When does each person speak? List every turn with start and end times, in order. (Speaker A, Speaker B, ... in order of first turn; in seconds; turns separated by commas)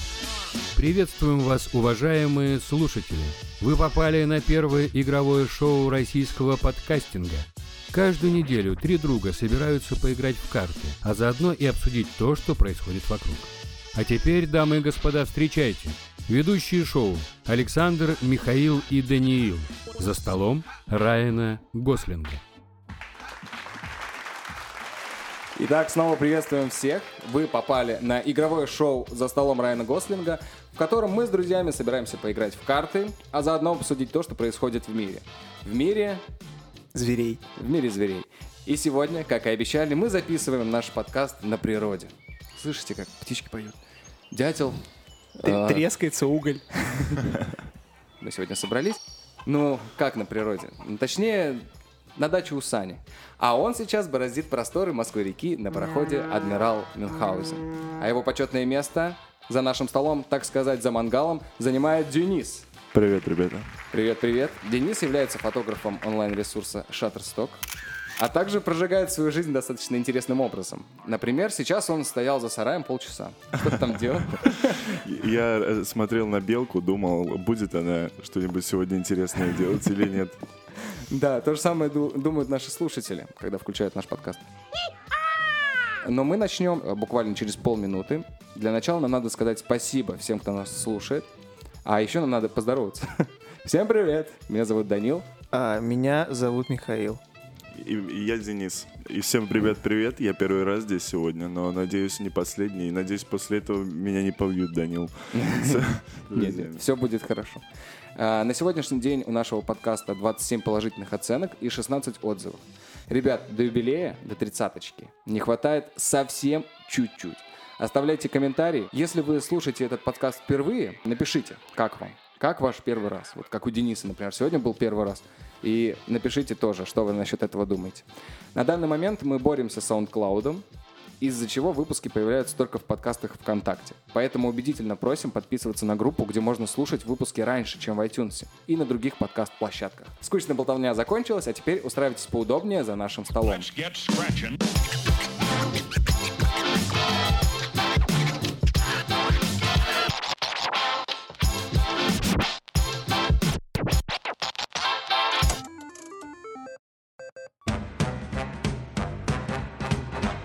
Speaker A: 0.7-22.4, Speaker B: 25.6-36.2, Speaker C: 36.9-37.4, Speaker B: 37.5-43.8, Speaker B: 44.3-44.8, Speaker C: 45.4-46.6, Speaker B: 45.4-45.9, Speaker B: 46.9-47.3, Speaker B: 48.2-62.7, Speaker D: 62.9-63.7, Speaker B: 63.9-67.6, Speaker B: 68.2-75.0, Speaker D: 73.6-80.4, Speaker B: 81.1-84.4, Speaker B: 86.0-91.3, Speaker B: 91.8-95.2, Speaker C: 95.5-97.2, Speaker D: 97.7-106.8, Speaker B: 105.3-107.6, Speaker B: 108.2-130.6, Speaker B: 131.2-143.8